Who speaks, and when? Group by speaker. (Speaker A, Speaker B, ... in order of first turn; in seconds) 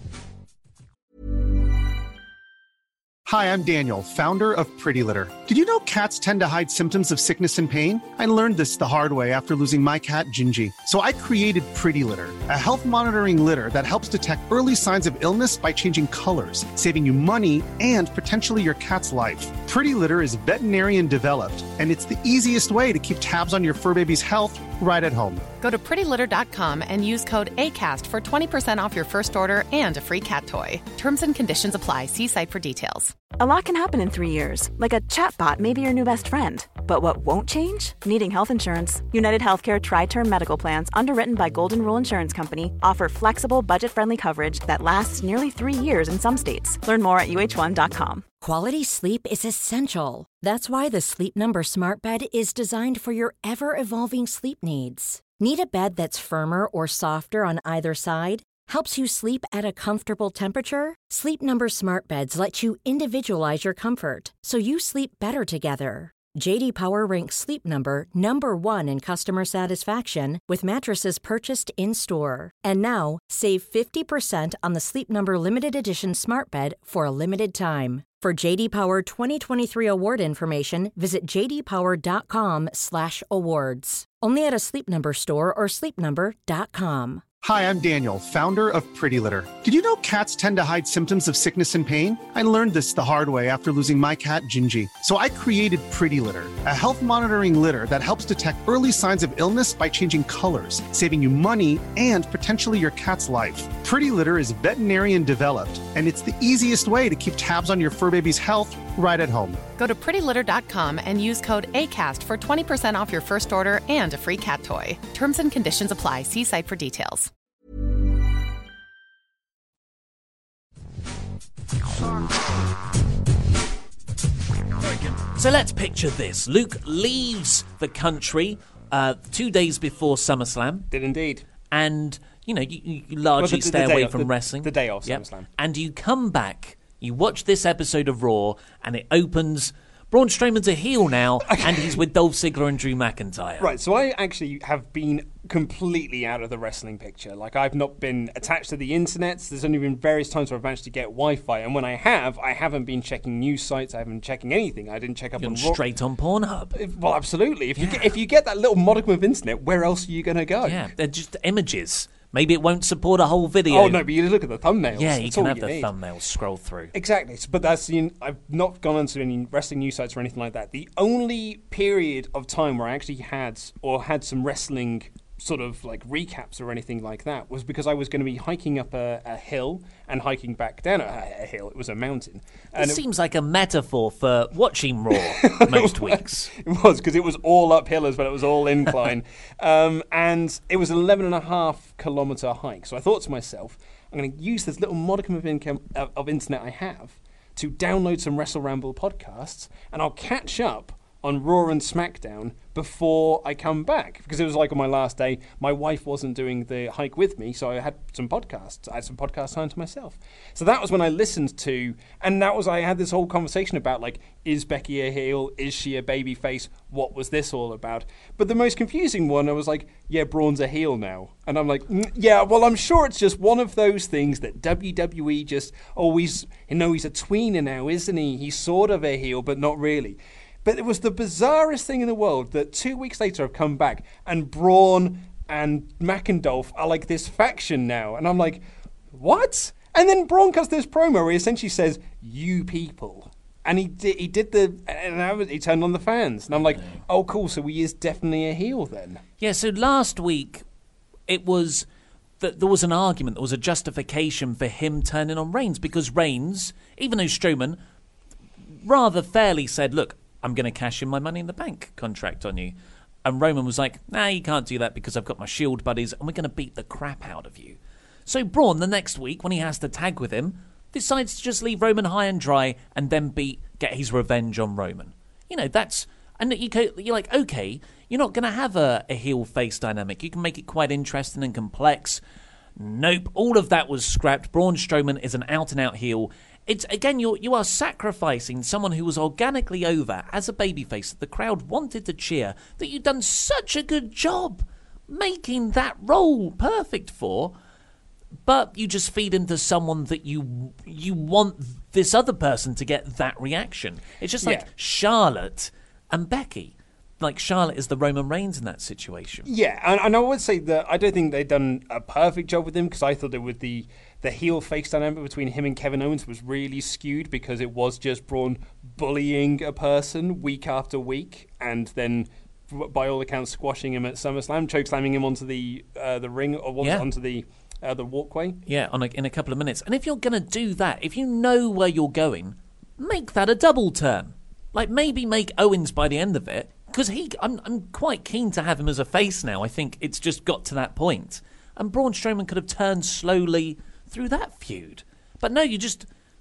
Speaker A: 3.3-25.4, 87.4-109.6
Speaker B: 25.6-33.2, 109.8-117.3
Speaker C: 33.4-48.2
Speaker D: 48.4-87.2
Speaker E: 125.3-130.9, 131.7-143.7, 155.4-156.8, 157.8-158.1, 160.6-164.0, 164.9-166.9, 182.8-186.5, 249.4-250.7, 251.3-251.9, 252.4-257.8, 258.8-262.7, 263.2-282.2, 282.8-297.5, 298.4-309.5, 326.8-327.1, 328.7-346.1
Speaker F: 130.9-131.4, 133.4-135.5, 141.5-142.0, 143.6-155.8, 156.8-160.9, 163.7-165.9, 166.9-183.0, 185.1-249.2, 304.4-304.7, 309.4-328.6